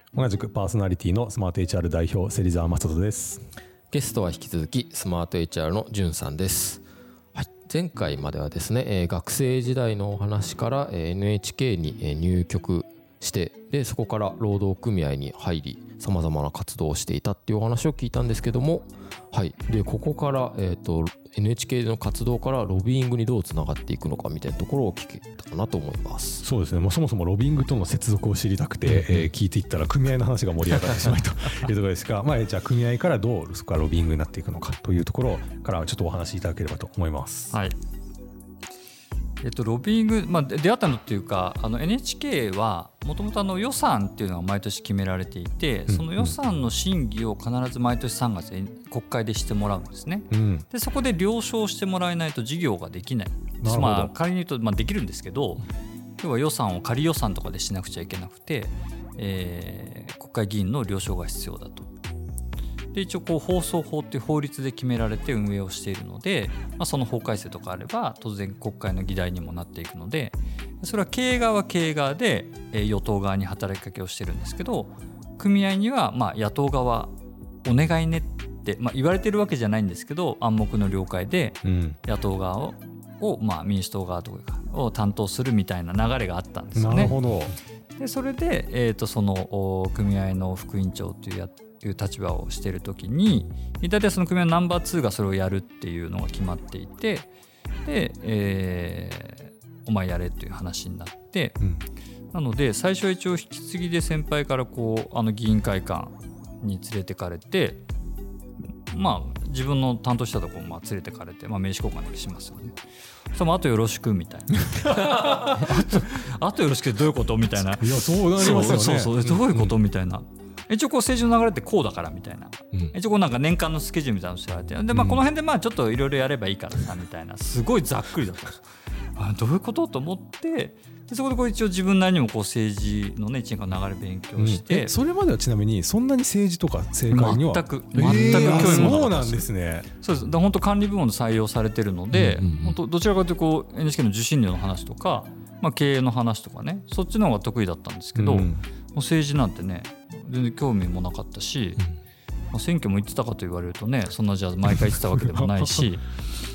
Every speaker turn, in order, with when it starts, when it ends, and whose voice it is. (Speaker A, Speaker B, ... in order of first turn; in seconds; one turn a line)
Speaker A: 0.1-3.4
Speaker B: 3.9-6.8
Speaker B: 7.3-26.4
Speaker A: 26.4-37.5
Speaker B: 28.9-29.3
Speaker C: 37.5-37.7
Speaker C: 39.4-55.7
Speaker A: 45.9-46.4
Speaker A: 50.3-50.6
Speaker A: 53.6-54.1
Speaker C: 56.2-61.9
Speaker C: 62.9-87.2
Speaker A: 81.6-82.0
Speaker A: 86.7-87.5
Speaker C: 88.0-97.3
Speaker C: 97.8-101.6
Speaker C: 102.3-107.8
Speaker C: 108.9-112.8
Speaker C: 113.3-128.6
Speaker A: 117.6-119.2
Speaker C: 129.2-134.9
Speaker A: 134.4-139.9
Speaker C: 137.1-151.8
Speaker B: 138.0-138.6
Speaker B: 142.1-142.8
Speaker A: 148.2-148.6
Speaker C: 152.5-156.1
Speaker A: 154.8-155.9